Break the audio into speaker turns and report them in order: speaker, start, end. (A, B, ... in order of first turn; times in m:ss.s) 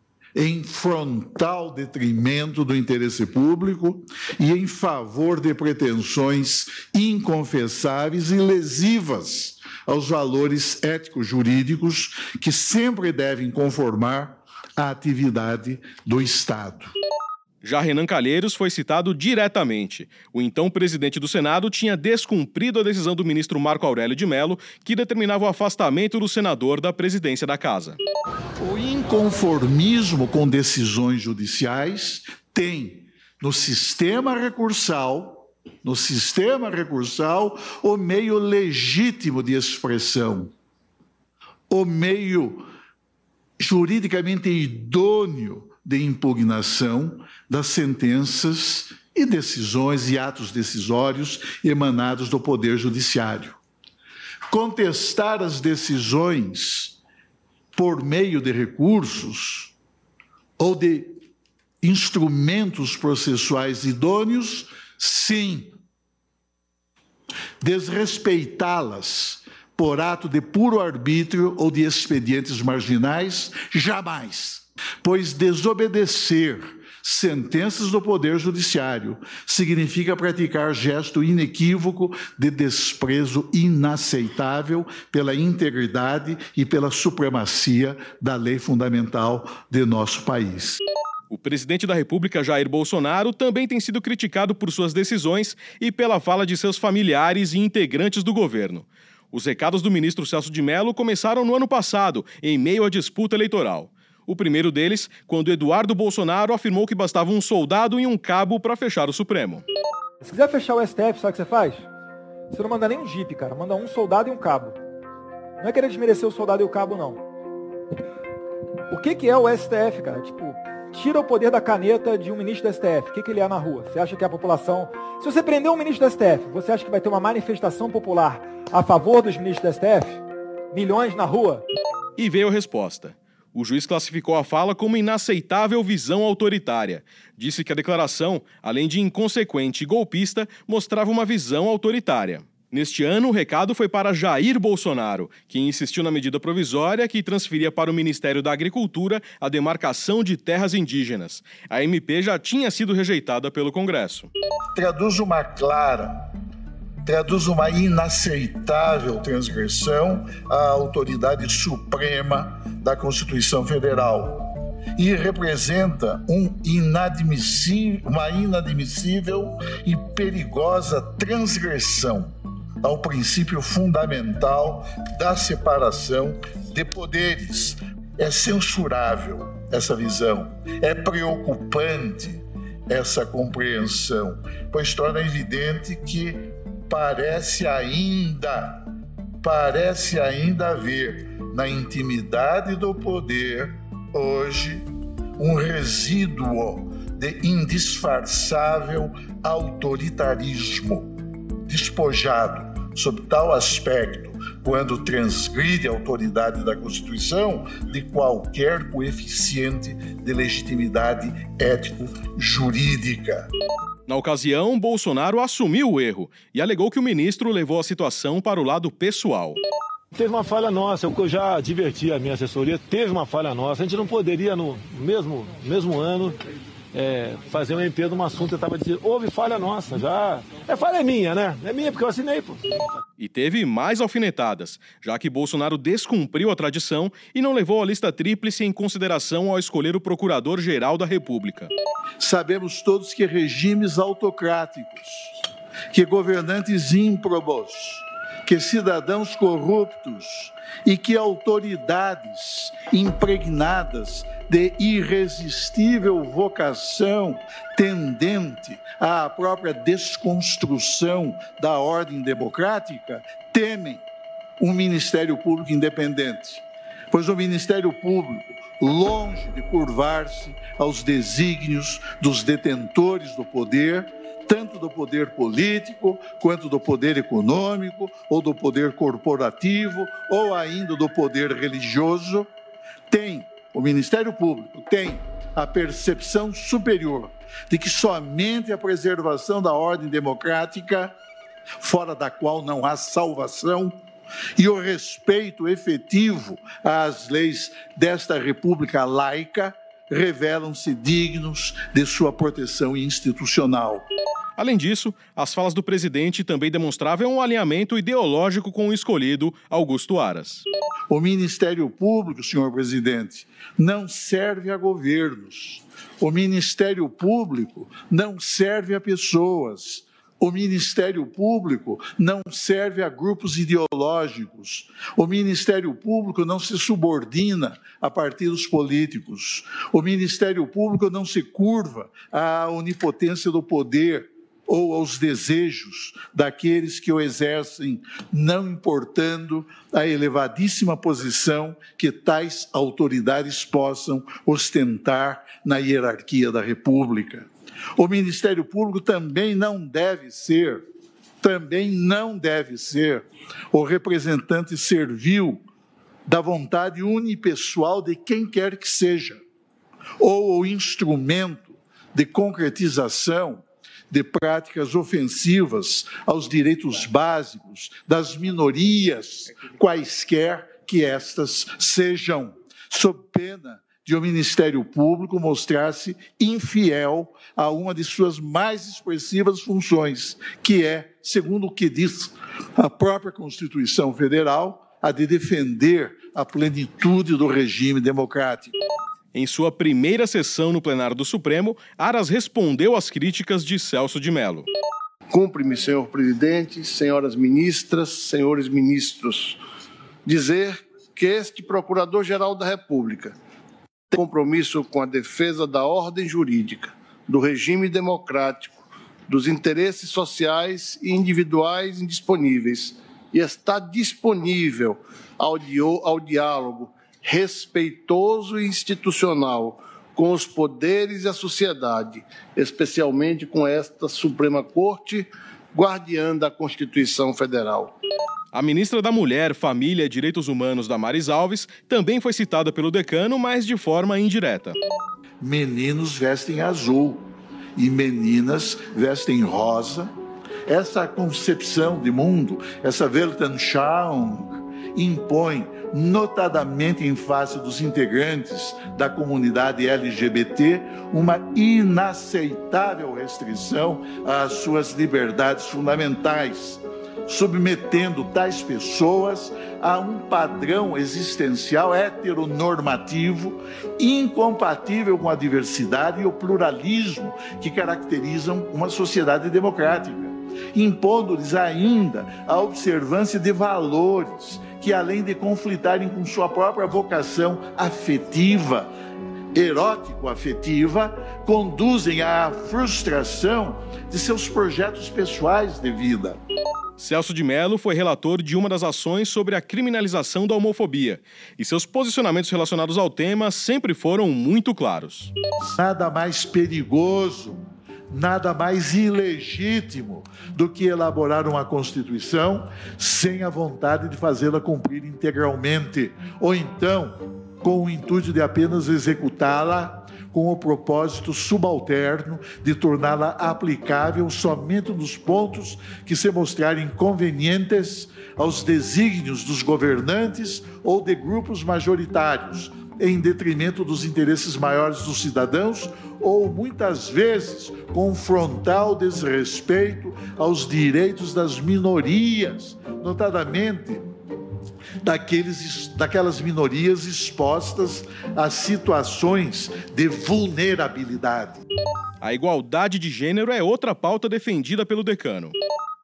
0:00.4-0:16.9 A
0:17.6-0:28.0 B
0:28.6-0:40.5 A
0:41.7-0:42.7 A
0:43.6-0:53.6 A
0:54.5-0:57.0 A
0:57.8-0:59.7 A
1:00.6-1:01.2 A
1:01.8-1:05.8 A
1:07.6-1:30.8 A
1:31.3-1:49.6 B
1:50.2-1:51.9 C
1:52.5-1:54.8 C
1:55.6-1:57.2 C
1:58.9-2:10.2 C
2:10.7-2:11.6 C
2:12.2-2:34.3 B
2:34.8-2:36.2 A
2:37.0-3:08.9 A
3:09.4-3:21.1 A
3:21.6-3:33.5 A
3:34.1-3:39.6 B
3:40.1-3:46.4 D
3:46.9-3:52.9 D
3:53.2-4:01.7 B
4:02.2-4:05.3 A
4:05.9-4:24.0 A
4:24.6-4:42.5 A
4:43.1-4:51.2 A
4:51.8-4:54.0 A
4:54.6-5:04.1 A
5:04.6-5:10.6 B
5:11.1-5:50.8 A
5:51.4-5:55.6 A
5:56.3-5:59.4 A
6:00.2-6:28.8 A
6:29.3-6:34.7 B
6:35.3-6:39.6 E
6:40.2-6:43.4 E
6:44.1-7:07.9 E
7:08.5-7:14.8 B
7:15.4-7:20.1 A
7:20.7-7:58.9 A
7:59.5-8:06.4 A
8:07.0-8:15.3 B
8:15.6-8:54.0 A
8:55.0-9:01.6 A
9:02.2-9:05.6 B